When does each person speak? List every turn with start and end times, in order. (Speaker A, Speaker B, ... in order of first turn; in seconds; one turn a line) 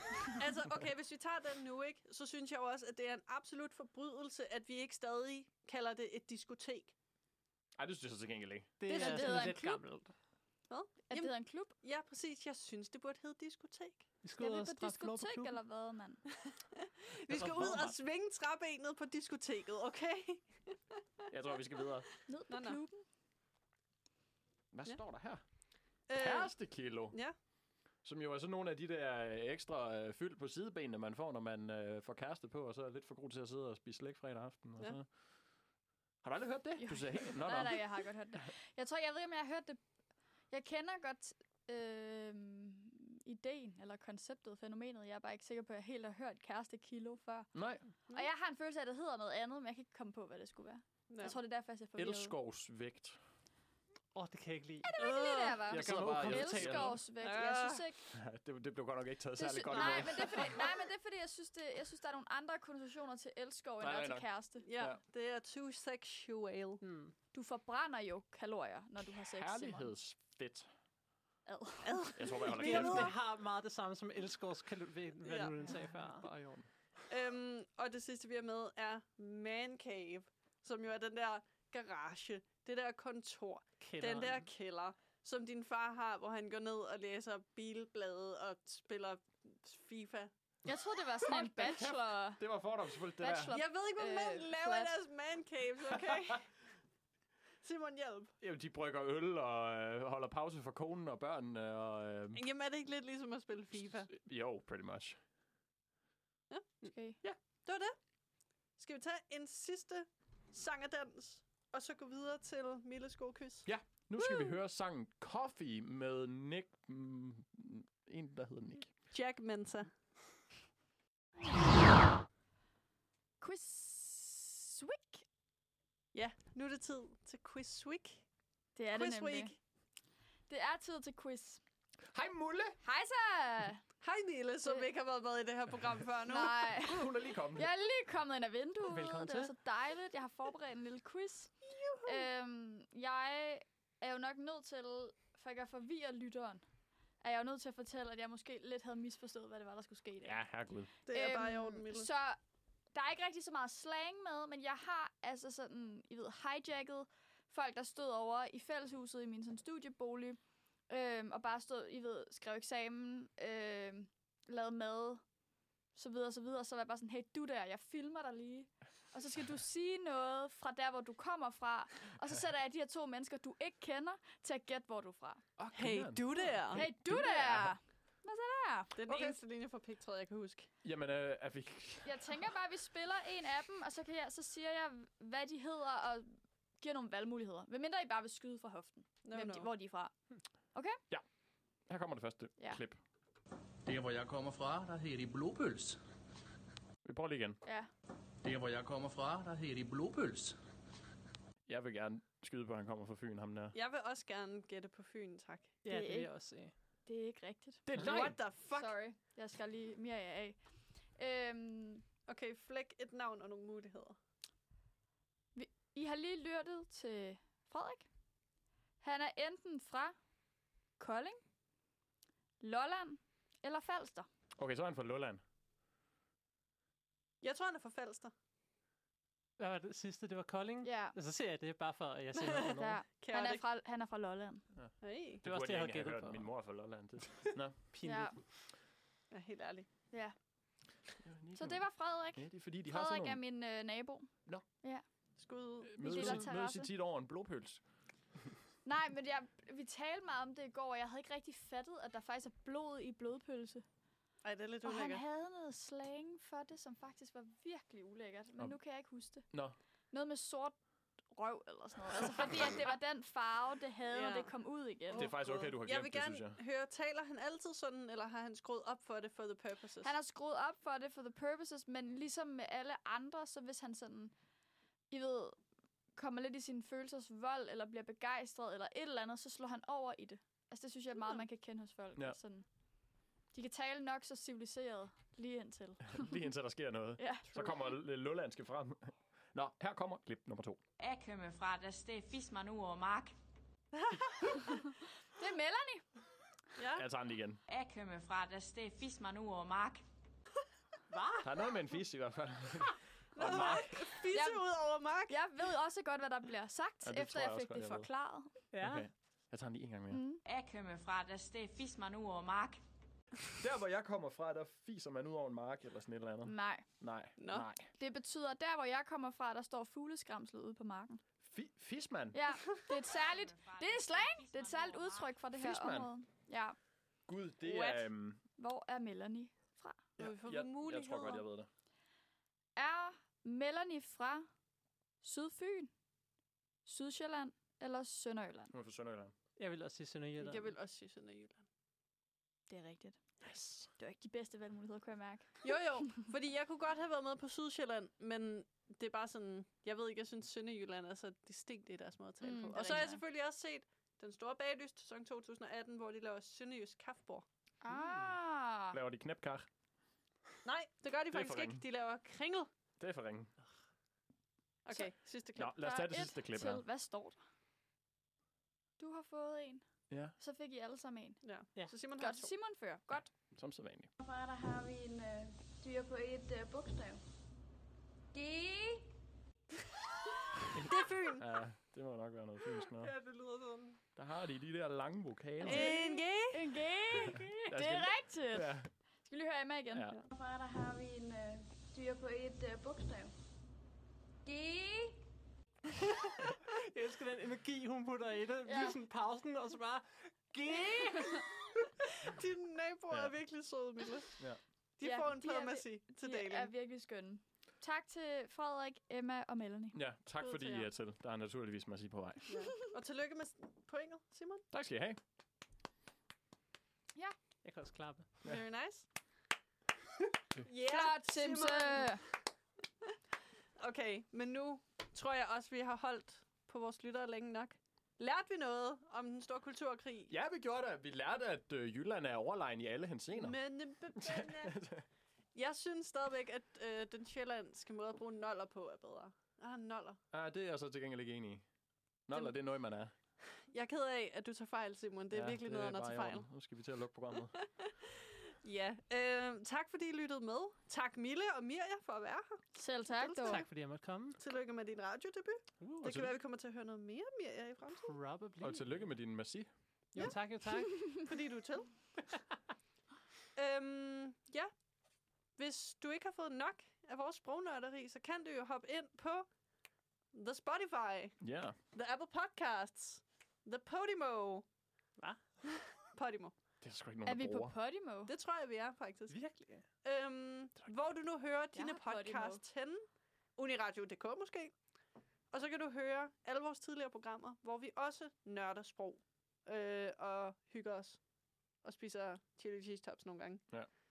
Speaker A: 0.4-6.9
Speaker B: 7.8-8.7
Speaker C: 8.8-10.1
Speaker A: 8.9-9.6
Speaker D: 8.9-9.8
Speaker A: 10.7-14.1
Speaker D: 11.1-11.7
Speaker C: 14.2-15.6
Speaker D: 14.4-16.2
Speaker A: 16.8-20.8
Speaker B: 17.3-17.9
Speaker C: 17.4-17.9
Speaker B: 21.3-22.1
Speaker D: 22.3-23.0
Speaker A: 22.5-22.8
Speaker B: 24.7-25.4
Speaker A: 26.1-27.3
Speaker B: 26.1-27.2
Speaker B: 28.0-35.1
Speaker B: 36.2-38.5
Speaker D: 36.8-39.8
Speaker D: 40.5-47.5
Speaker B: 47.5-47.9
Speaker D: 48.1-52.3
Speaker A: 51.1-51.4
Speaker B: 52.0-53.2
Speaker C: 54.1-57.0
Speaker D: 54.8-58.1
Speaker A: 55.0-55.6
Speaker B: 55.7-57.0
Speaker A: 57.2-57.9
Speaker B: 58.1-60.6
Speaker D: 59.4-64.7
Speaker A: 59.6-60.6
Speaker B: 63.8-65.0
Speaker A: 64.6-66.8
Speaker C: 66.8-67.1
Speaker D: 67.3-69.9
Speaker B: 69.3-70.7
Speaker D: 71.5-72.2
Speaker A: 71.8-73.1
Speaker B: 72.1-73.1
Speaker C: 72.5-76.3
Speaker A: 75.2-75.6
Speaker B: 76.0-76.7
Speaker A: 77.1-90.3
Speaker C: 83.8-84.5
Speaker D: 90.6-92.4
Speaker B: 91.3-93.5
Speaker D: 93.2-94.9
Speaker A: 93.5-96.5
Speaker A: 97.6-98.3
Speaker B: 98.4-102.4
Speaker A: 102.3-104.1
Speaker B: 104.1-105.2
Speaker A: 106.5-107.9
Speaker D: 106.9-107.2
Speaker A: 108.8-113.7
Speaker B: 113.6-118.9
Speaker A: 119.1-119.9
Speaker D: 123.4-125.2
Speaker A: 126.1-128.2
Speaker D: 128.8-129.5
Speaker A: 128.9-129.6
Speaker D: 130.5-131.6
Speaker B: 132.1-132.8
Speaker D: 132.8-133.8
Speaker A: 134.0-136.8
Speaker D: 136.2-141.5
Speaker B: 136.8-137.7
Speaker C: 138.8-139.5
Speaker A: 141.7-142.3
Speaker D: 142.0-146.6
Speaker D: 147.2-150.4
Speaker B: 150.2-150.9
Speaker A: 151.1-152.1
Speaker D: 151.1-152.4
Speaker D: 152.9-165.2
Speaker D: 165.9-175.4
Speaker B: 175.6-177.8
Speaker A: 175.7-176.9
Speaker D: 176.7-179.4
Speaker A: 179.0-180.7
Speaker B: 180.8-182.2
Speaker D: 182.0-190.1
Speaker A: 189.2-189.7
Speaker B: 191.9-193.0
Speaker E: 193.8-196.0
Speaker B: 197.0-197.6
Speaker D: 197.6-197.9
Speaker E: 198.4-200.6
Speaker B: 201.7-203.8
Speaker A: 203.7-205.8
Speaker C: 205.8-206.7
Speaker D: 205.9-206.3
Speaker D: 207.1-210.6
Speaker B: 207.8-208.4
Speaker A: 208.0-208.9
Speaker D: 211.2-212.0
Speaker A: 212.3-214.2
Speaker D: 215.5-218.1
Speaker D: 219.0-220.1
Speaker D: 221.0-221.4
Speaker D: 222.6-224.3
Speaker B: 224.6-225.4
Speaker A: 227.4-228.3
Speaker C: 229.6-233.0
Speaker D: 230.8-231.2
Speaker A: 232.3-233.6
Speaker D: 232.8-234.6
Speaker B: 234.8-237.8
Speaker A: 235.0-235.4
Speaker C: 235.4-236.5
Speaker C: 237.9-238.4
Speaker D: 238.0-238.3
Speaker A: 239.3-239.9
Speaker B: 241.2-243.4
Speaker D: 241.6-245.0
Speaker A: 245.4-246.5
Speaker B: 245.8-247.8
Speaker D: 246.0-246.9
Speaker D: 248.8-253.8
Speaker A: 254.4-255.2
Speaker D: 254.8-259.4
Speaker B: 259.5-259.8
Speaker D: 260.1-260.8
Speaker D: 261.3-265.3
Speaker A: 262.3-262.6
Speaker A: 264.1-264.5
Speaker A: 265.1-270.1
Speaker B: 265.1-266.6
Speaker D: 270.0-274.3
Speaker D: 275.1-275.6
Speaker D: 276.1-282.6
Speaker A: 281.1-281.4
Speaker D: 283.5-286.3
Speaker B: 286.1-290.8
Speaker D: 287.2-287.7
Speaker F: 291.0-293.3
Speaker A: 293.9-294.7
Speaker D: 294.6-296.0
Speaker A: 296.8-297.0
Speaker B: 296.9-297.6
Speaker F: 297.7-300.0
Speaker C: 301.1-301.5
Speaker B: 301.4-304.1
Speaker A: 303.3-305.4
Speaker D: 304.3-304.6
Speaker D: 305.3-308.5
Speaker B: 307.0-308.1
Speaker C: 308.7-309.1
Speaker B: 308.8-310.2
Speaker D: 310.1-310.4
Speaker F: 310.4-312.8
Speaker B: 313.6-317.9
Speaker D: 316.4-316.9
Speaker A: 317.4-317.7
Speaker D: 317.9-321.2
Speaker B: 321.4-322.4
Speaker D: 322.3-326.8
Speaker F: 323.1-325.4
Speaker B: 325.6-326.1
Speaker B: 327.3-328.4
Speaker A: 327.6-328.1
Speaker D: 328.6-330.0
Speaker A: 330.2-331.4
Speaker B: 330.2-331.7
Speaker D: 332.8-334.5
Speaker D: 335.2-335.9
Speaker D: 336.9-338.7
Speaker B: 338.7-339.3
Speaker C: 339.6-340.7
Speaker A: 340.4-341.6
Speaker D: 342.7-343.2
Speaker B: 343.4-343.9
Speaker D: 344.0-345.6
Speaker A: 345.6-357.4
Speaker D: 352.4-353.2
Speaker D: 357.8-359.0
Speaker C: 357.9-358.3
Speaker B: 358.9-359.7
Speaker A: 360.6-362.7
Speaker B: 361.3-361.8
Speaker B: 363.0-363.5
Speaker A: 364.8-365.7
Speaker B: 365.6-366.8
Speaker D: 365.7-367.4
Speaker D: 369.0-369.9
Speaker B: 370.1-370.3
Speaker D: 370.4-371.4
Speaker A: 371.4-372.5
Speaker D: 372.2-373.3
Speaker B: 373.5-374.1
Speaker G: 374.2-377.2
Speaker G: 378.3-379.1
Speaker B: 380.7-383.1
Speaker A: 380.9-381.4
Speaker C: 383.0-384.0
Speaker B: 384.1-385.9
Speaker D: 385.6-390.1
Speaker A: 385.6-386.8
Speaker B: 387.6-388.9
Speaker B: 389.9-390.2
Speaker G: 390.3-393.3
Speaker G: 394.4-395.2
Speaker C: 396.7-401.5
Speaker D: 398.6-399.0
Speaker A: 402.0-404.3
Speaker A: 405.0-406.7
Speaker D: 405.0-409.9
Speaker B: 409.9-412.5
Speaker A: 410.4-410.9
Speaker A: 412.5-414.6
Speaker B: 414.7-415.2
Speaker C: 417.6-418.3
Speaker A: 418.4-419.1
Speaker A: 420.6-422.2
Speaker D: 420.8-422.2
Speaker A: 423.8-430.3
Speaker B: 430.3-433.6
Speaker A: 433.3-434.8
Speaker B: 434.1-435.0
Speaker A: 435.5-440.2
Speaker B: 440.3-441.6
Speaker B: 442.3-443.1
Speaker A: 443.7-446.5
Speaker B: 445.3-447.5
Speaker A: 447.6-453.7
Speaker D: 452.7-453.6
Speaker C: 453.4-454.4
Speaker A: 454.4-458.1
Speaker C: 455.8-456.1
Speaker B: 456.0-456.3
Speaker C: 458.0-459.1
Speaker B: 458.6-459.7
Speaker C: 460.1-461.1
Speaker A: 461.2-461.9
Speaker A: 463.6-464.7
Speaker A: 465.6-469.5
Speaker A: 470.3-471.4
Speaker B: 471.4-471.8
Speaker A: 471.9-474.6
Speaker C: 475.2-475.4
Speaker A: 476.0-476.5
Speaker B: 476.8-477.7
Speaker D: 477.2-478.3
Speaker A: 478.3-479.4
Speaker C: 479.3-479.8
Speaker A: 480.0-483.0
Speaker D: 481.7-482.6
Speaker A: 483.6-484.7
Speaker A: 485.5-491.2
Speaker A: 491.8-493.7